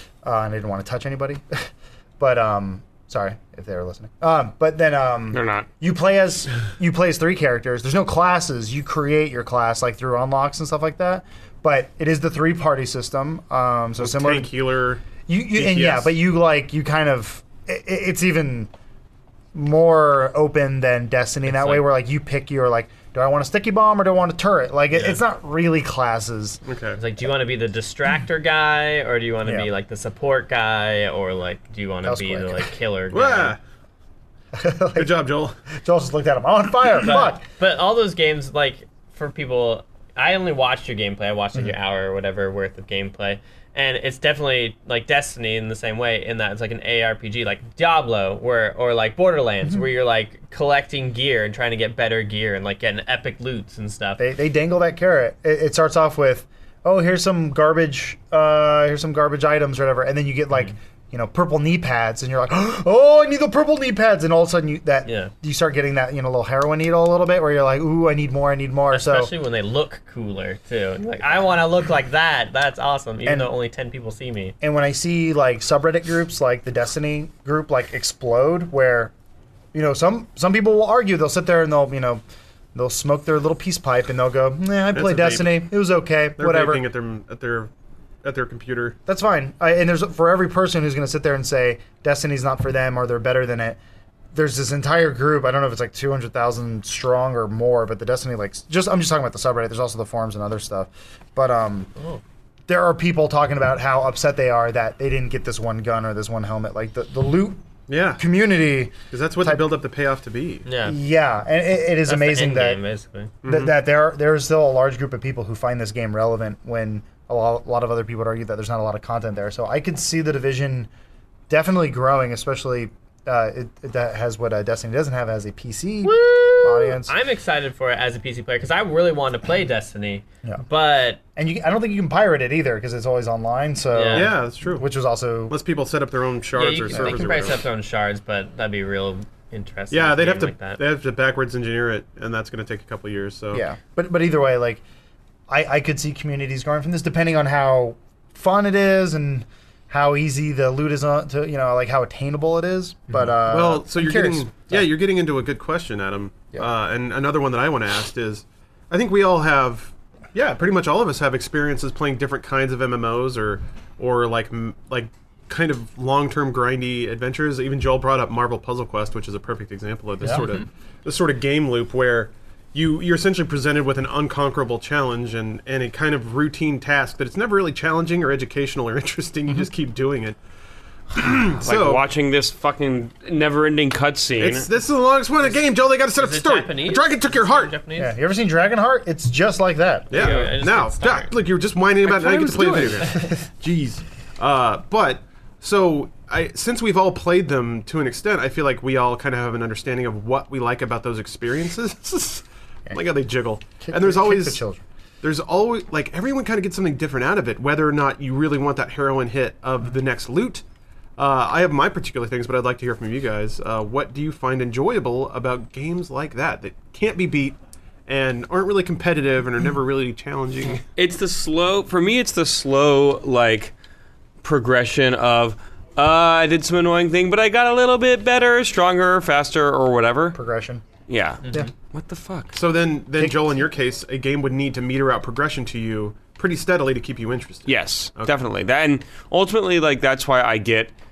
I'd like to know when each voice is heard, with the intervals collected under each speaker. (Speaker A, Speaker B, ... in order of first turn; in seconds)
Speaker A: 0.2-14.5, 15.3-18.7, 19.5-26.6, 32.0-32.7, 34.5-37.4, 54.2-69.3, 73.2-73.5, 74.6-79.1, 79.7-82.2, 82.8-86.8, 89.1-93.8, 94.3-101.9, 102.7-107.6, 108.2-109.7, 110.8-112.8, 113.4-120.9, 121.5-127.2, 131.4-135.6, 136.9-137.2, 143.5-144.8, 145.5-155.0, 188.0-190.4, 203.8-204.8, 230.3-230.8
Speaker B: 5.3-5.7, 181.6-184.7, 192.1-193.2, 221.0-223.7, 224.4-230.4, 231.1-232.6, 237.7-240.9
Speaker C: 14.0-16.2, 26.7-27.0, 33.1-33.6, 35.0-35.6, 84.9-85.7, 86.4-87.7, 88.2-89.0, 107.9-108.2, 109.1-110.7, 113.4-113.8, 134.1-134.9, 135.5-137.6, 139.9-143.6, 153.4-180.4, 181.1-182.0, 184.4-187.8, 190.1-204.6, 205.2-210.6, 211.2-217.6, 218.1-220.8, 232.5-238.4
Speaker D: 21.5-21.9, 24.9-25.2, 27.0-33.6, 37.0-54.2, 65.1-65.3, 68.9-74.5, 110.7-111.0, 112.1-113.3, 126.0-131.2, 133.9-134.3, 136.6-140.8, 186.2-188.2, 190.1-191.3